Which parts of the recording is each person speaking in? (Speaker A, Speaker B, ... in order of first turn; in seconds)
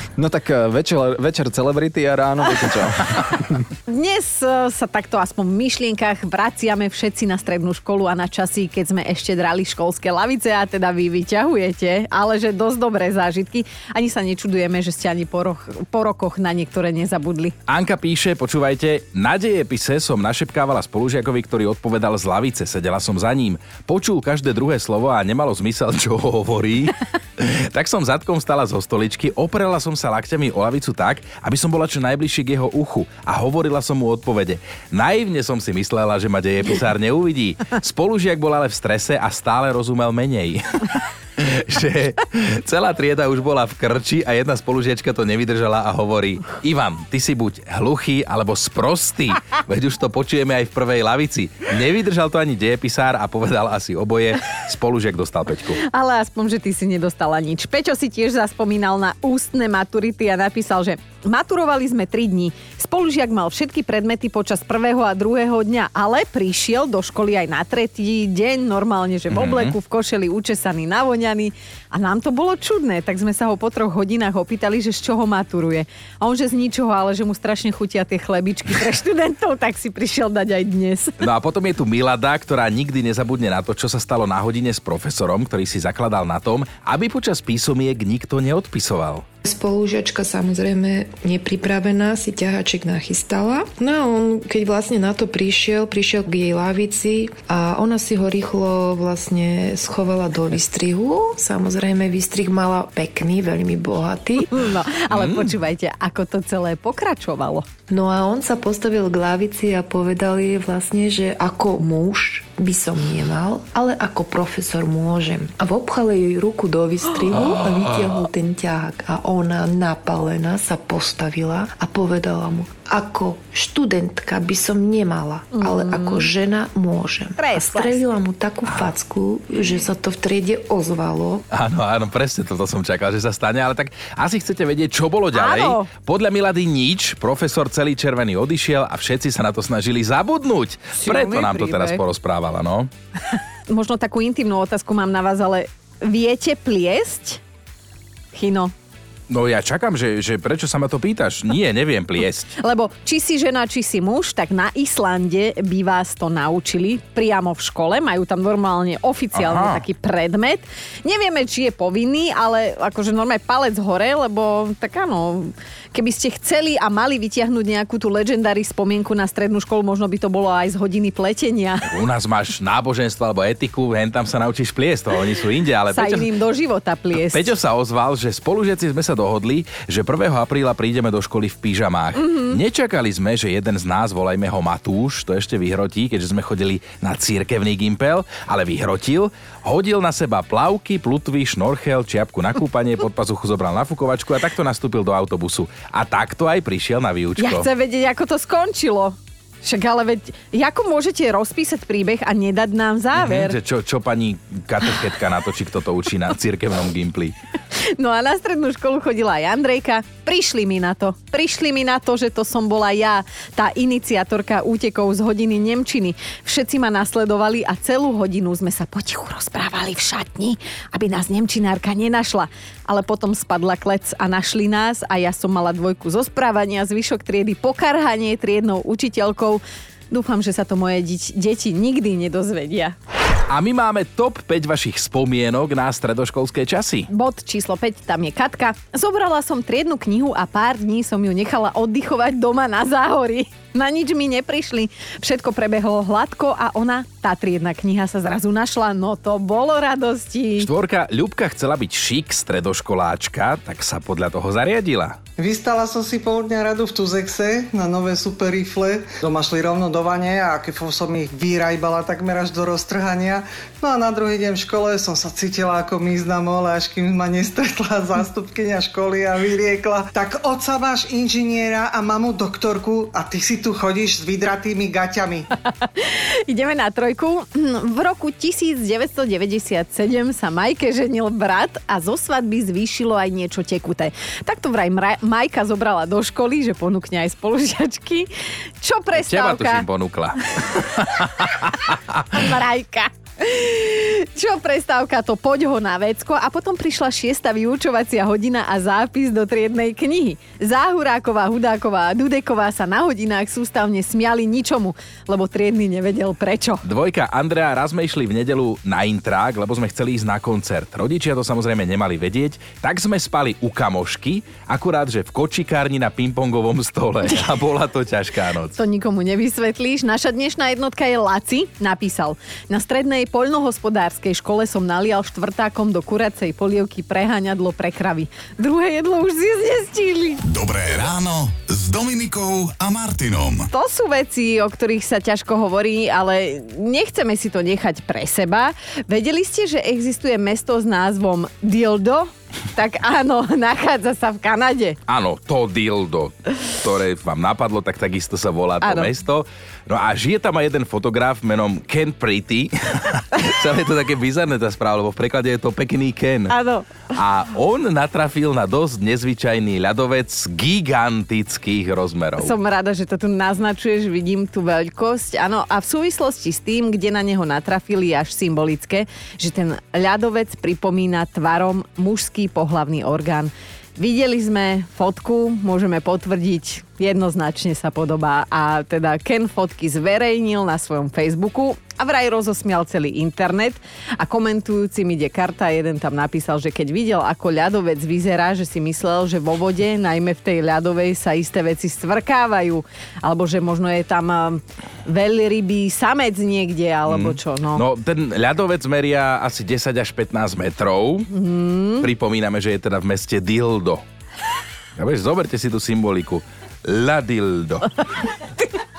Speaker A: 0.2-3.6
Speaker B: 3.9-17.5, 55.9-81.2, 104.5-107.6, 125.6-126.2, 127.4-128.0, 135.3-135.9, 141.0-142.0, 143.7-147.4, 148.3-148.7, 152.6-171.8, 175.9-177.5, 182.2-182.6, 197.4-203.5, 207.8-232.9, 237.1-250.7, 275.9-288.3, 288.8-289.9, 292.3-306.8, 318.8-330.4, 333.7-345.0, 348.8-349.1, 356.5-356.9, 362.4-397.8, 401.3-402.1
Speaker C: 17.7-55.8, 69.3-69.7, 81.2-89.2, 105.1-105.5, 131.5-142.9, 149.3-152.5, 159.3-159.8, 171.8-176.3, 177.2-197.7, 203.1-207.3, 233.5-237.1, 250.6-255.2, 289.1-292.2, 306.8-318.8, 345.1-356.5, 357.1-362.6, 397.1-401.3, 402.0-404.0, 404.9-407.9
Speaker D: 89.5-104.6, 107.9-131.4
Speaker E: 255.4-275.4
Speaker F: 330.4-333.7